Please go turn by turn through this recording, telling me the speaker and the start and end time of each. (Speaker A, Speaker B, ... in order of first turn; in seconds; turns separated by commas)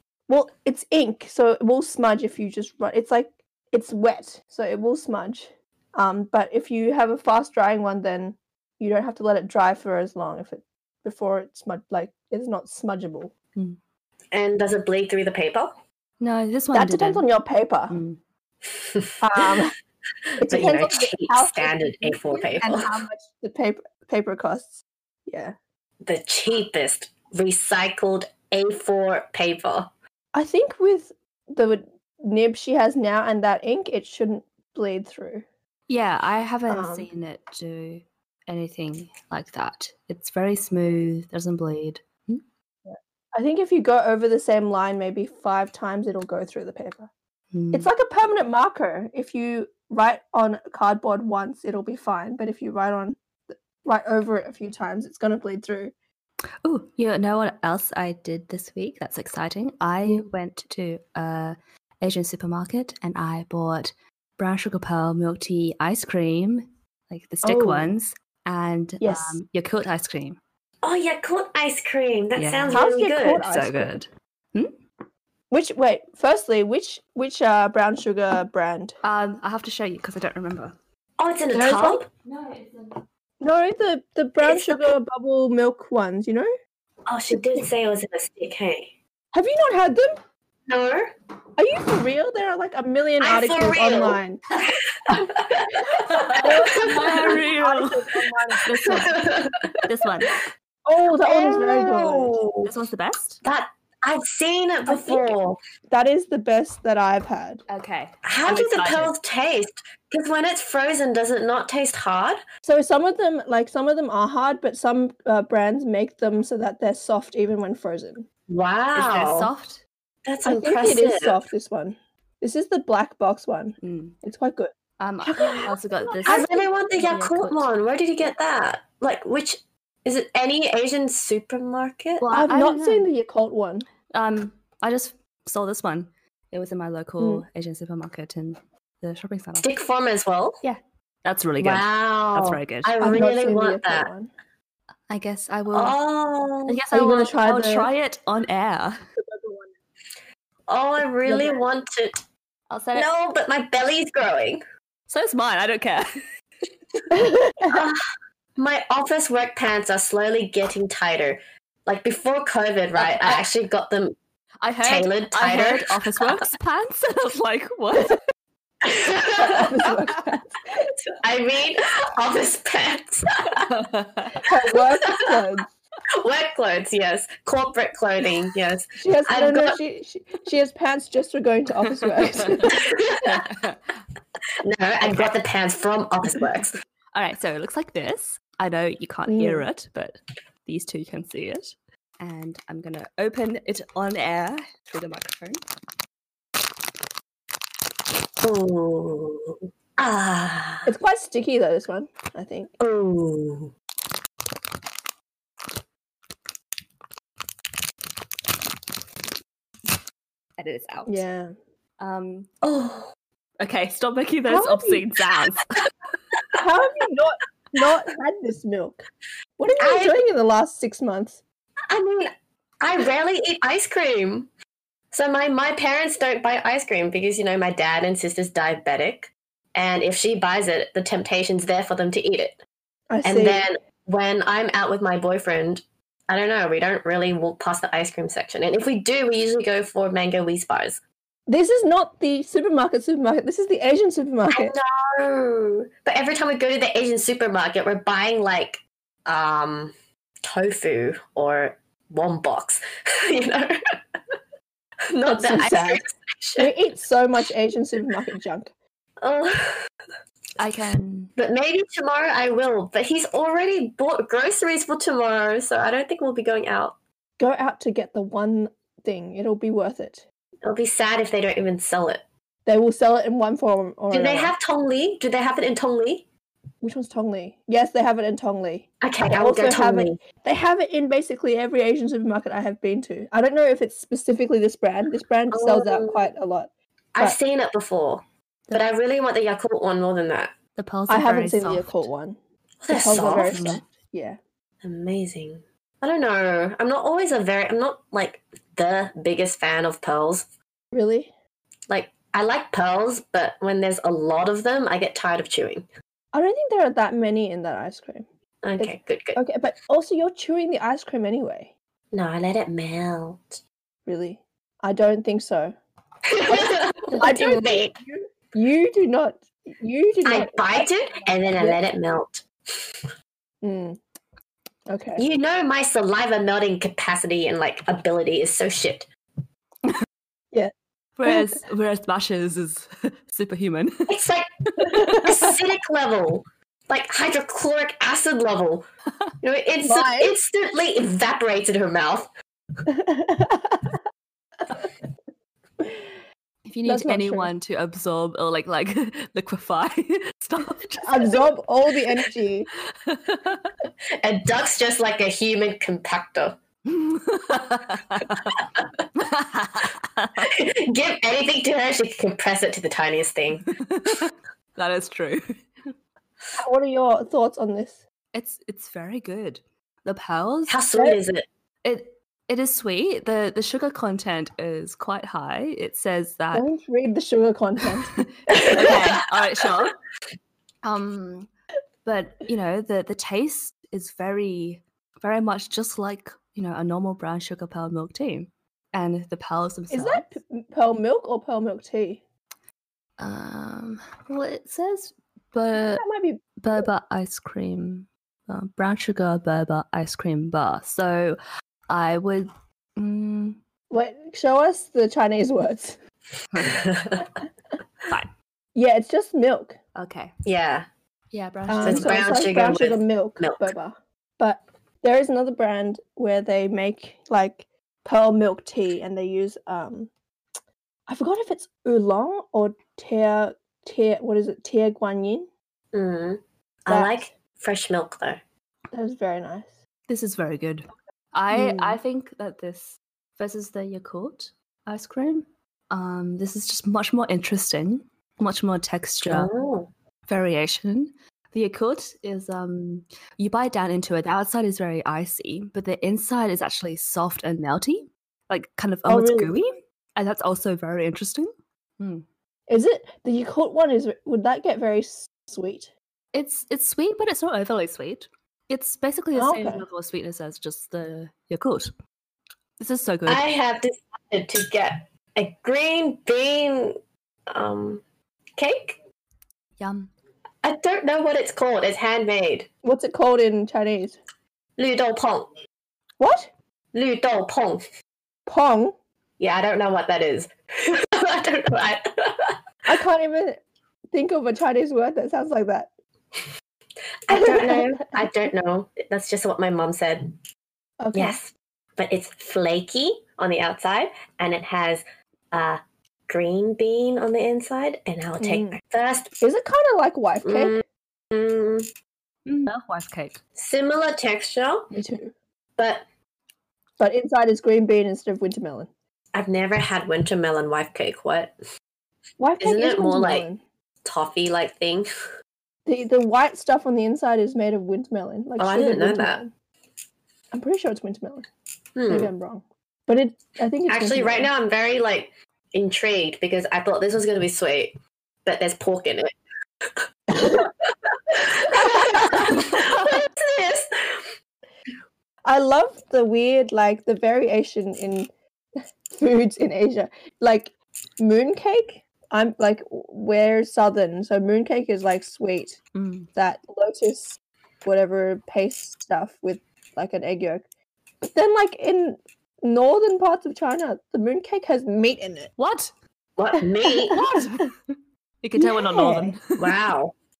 Speaker A: 0.3-13.3, Speaker B: 14.3-15.7, Speaker C: 16.2-17.3, Speaker A: 16.7-17.9, Speaker C: 17.9-18.2, Speaker B: 18.7-19.6, Speaker A: 19.2-19.7, Speaker A: 20.4-25.5, Speaker B: 20.5-23.0, Speaker B: 26.0-29.9, Speaker A: 30.3-35.4, Speaker C: 35.9-42.4, Speaker A: 36.7-37.1, Speaker A: 42.9-47.1, Speaker C: 47.5-47.9, Speaker A: 47.7-55.9, Speaker C: 56.6-70.4, Speaker A: 67.4-67.9, Speaker A: 69.0-69.4, Speaker B: 70.8-73.5, Speaker C: 72.3-74.8, Speaker A: 72.7-73.9, Speaker A: 75.5-79.0, Speaker C: 79.0-80.7, Speaker B: 81.2-82.1, Speaker A: 81.5-82.0, Speaker C: 82.2-83.0, Speaker A: 83.4-86.5, Speaker B: 84.4-85.0, Speaker B: 87.1-88.9, Speaker A: 87.3-87.6, Speaker A: 89.3-90.2, Speaker B: 90.7-91.1, Speaker A: 91.6-94.4, Speaker B: 93.2-97.4, Speaker C: 96.1-98.1, Speaker A: 96.4-99.0, Speaker C: 98.6-99.3, Speaker B: 98.7-99.8, Speaker C: 99.8-100.4, Speaker A: 100.8-102.4, Speaker B: 101.2-102.7, Speaker C: 102.6-103.4, Speaker B: 103.4-105.6, Speaker A: 104.9-105.3, Speaker A: 105.9-107.6, Speaker C: 107.7-109.1, Speaker B: 108.2-112.4, Speaker A: 112.6-118.3, Speaker B: 118.5-119.5, Speaker C: 118.9-119.8, Speaker B: 120.2-121.4, Speaker A: 120.4-124.7, Speaker C: 123.8-124.2, Speaker C: 125.0-127.7, Speaker A: 125.2-126.6, Speaker B: 126.2-132.2, Speaker C: 132.2-133.1, Speaker A: 132.3-133.9, Speaker C: 134.1-139.7, Speaker A: 137.2-137.4, Speaker B: 139.6-140.6, Speaker C: 140.6-143.0, Speaker B: 141.6-144.1, Speaker A: 143.0-144.3, Speaker C: 145.1-146.0, Speaker B: 145.7-146.8, Speaker C: 146.7-149.0, Speaker A: 146.9-147.9, Speaker A: 149.2-149.7, Speaker B: 150.7-152.2, Speaker A: 151.2-151.6, Speaker C: 152.7-153.1, Speaker B: 152.9-154.6, Speaker C: 155.1-156.2, Speaker A: 157.1-157.8, Speaker B: 157.7-158.1, Speaker B: 158.6-164.2, Speaker C: 163.0-163.4, Speaker C: 164.6-168.2, Speaker B: 164.8-166.5, Speaker B: 168.8-169.7, Speaker A: 169.3-170.6, Speaker B: 171.1-173.7, Speaker C: 173.6-174.4, Speaker A: 174.4-175.7, Speaker B: 176.2-179.8, Speaker A: 179.0-182.8, Speaker C: 182.0-183.9, Speaker B: 182.7-183.4, Speaker B: 184.6-186.7, Speaker C: 185.0-185.3, Speaker C: 187.1-195.6, Speaker A: 189.3-189.7, Speaker B: 198.4-200.9, Speaker A: 200.8-202.7, Speaker B: 202.8-203.7, Speaker C: 210.6-211.2, Speaker A: 211.1-211.5, Speaker C: 212.0-212.5, Speaker B: 212.6-213.1, Speaker C: 213.6-215.8, Speaker A: 214.5-215.1, Speaker A: 216.5-219.0, Speaker A: 219.6-221.4, Speaker B: 219.8-220.2, Speaker B: 221.9-224.5, Speaker B: 225.1-232.6, Speaker A: 233.1-233.7, Speaker B: 233.2-241.0, Speaker A: 241.5-244.7, Speaker B: 244.5-253.7, Speaker B: 255.1-256.7, Speaker A: 255.2-256.0, Speaker A: 256.6-258.7, Speaker B: 259.2-259.8, Speaker C: 260.6-261.3, Speaker B: 261.4-266.9, Speaker A: 267.4-270.2, Speaker B: 270.6-272.2, Speaker A: 272.6-274.5, Speaker B: 274.1-276.2, Speaker A: 276.8-287.4, Speaker B: 279.0-280.2, Speaker B: 285.5-286.2, Speaker B: 287.1-290.5, Speaker C: 290.8-292.1, Speaker A: 291.1-292.4, Speaker B: 292.8-293.8, Speaker A: 292.9-294.4, Speaker C: 293.4-293.8, Speaker B: 294.8-300.4, Speaker A: 300.9-301.3, Speaker B: 301.9-305.9, Speaker A: 306.3-308.2, Speaker B: 308.6-309.4, Speaker A: 308.8-311.7, Speaker B: 312.1-313.6, Speaker A: 314.1-315.7, Speaker B: 316.3-317.9, Speaker A: 316.4-321.8, Speaker B: 320.2-323.1, Speaker A: 323.6-324.0, Speaker A: 324.9-325.2, Speaker B: 325.2-329.1, Speaker C: 331.1-334.2, Speaker A: 331.2-331.6, Speaker B: 334.1-338.9, Speaker C: 334.8-335.4, Speaker A: 335.0-335.2, Speaker B: 339.4-342.3, Speaker A: 339.8-340.4, Speaker A: 342.9-343.9, Speaker A: 345.8-346.1, Speaker C: 346.6-351.4, Speaker A: 346.8-347.5, Speaker A: 351.0-352.7, Speaker C: 352.9-353.7, Speaker B: 354.2-356.6, Speaker C: 356.9-358.6, Speaker B: 358.6-358.9, Speaker C: 359.1-360.6, Speaker B: 360.4-363.7, Speaker C: 363.6-365.9, Speaker A: 366.6-368.0, Speaker C: 368.3-370.8, Speaker B: 370.7-371.5, Speaker C: 371.8-376.6, Speaker A: 376.5-379.1, Speaker C: 378.1-379.9, Speaker C: 380.8-381.5, Speaker C: 382.0-390.3, Speaker A: 389.9-392.2, Speaker C: 393.2-396.1, Speaker A: 395.9-396.8, Speaker C: 396.6-401.4, Speaker C: 401.9-403.6, Speaker A: 403.9-406.0, Speaker C: 406.5-406.8, Speaker B: 406.6-407.2, Speaker A: 408.7-409.8, Speaker C: 409.9-410.3, Speaker B: 410.4-410.9, Speaker C: 411.3-412.3, Speaker A: 411.7-420.1, Speaker B: 411.8-413.7, Speaker A: 421.1-425.5, Speaker B: 425.9-428.4, Speaker A: 426.9-427.3, Speaker A: 428.9-429.8, Speaker C: 430.1-439.5, Speaker A: 431.5-431.9, Speaker B: 439.2-439.9, Speaker C: 440.3-452.2, Speaker A: 449.1-449.6, Speaker A: 452.7-455.9, Speaker C: 456.3-461.9, Speaker A: 459.3-459.8, Speaker C: 462.8-463.4, Speaker B: 463.2-467.0, Speaker B: 467.5-468.0, Speaker B: 468.6-469.0, Speaker C: 469.8-470.1, Speaker B: 470.6-472.7, Speaker A: 472.8-474.2, Speaker B: 474.8-475.5, Speaker A: 476.2-476.5, Speaker B: 476.9-477.8, Speaker A: 478.5-478.9, Speaker B: 479.4-482.6, Speaker A: 482.9-485.9, Speaker B: 487.3-490.4, Speaker A: 487.3-488.1, Speaker A: 491.0-491.4, Speaker B: 491.1-499.4, Speaker A: 498.4-498.8, Speaker A: 499.4-500.8, Speaker B: 500.4-501.9, Speaker C: 502.4-503.4, Speaker B: 503.6-504.9, Speaker A: 504.9-505.3, Speaker B: 505.8-506.0, Speaker A: 507.0-508.9, Speaker B: 509.3-511.5, Speaker A: 512.4-513.6, Speaker B: 512.6-513.5, Speaker B: 514.0-515.1, Speaker A: 515.9-519.5, Speaker B: 518.6-519.4, Speaker A: 520.5-521.5, Speaker B: 522.0-522.3, Speaker A: 522.1-524.5, Speaker B: 523.9-529.3, Speaker B: 530.0-530.7, Speaker A: 530.4-530.7, Speaker B: 531.3-534.3, Speaker A: 531.8-532.4, Speaker A: 535.5-538.3, Speaker A: 539.1-545.8, Speaker C: 545.9-546.3, Speaker A: 546.3-550.6, Speaker A: 551.2-555.5, Speaker C: 555.6-555.9, Speaker B: 556.4-557.2, Speaker A: 557.1-557.6, Speaker C: 557.1-557.8, Speaker C: 558.4-559.8, Speaker A: 558.6-559.4, Speaker B: 559.6-560.1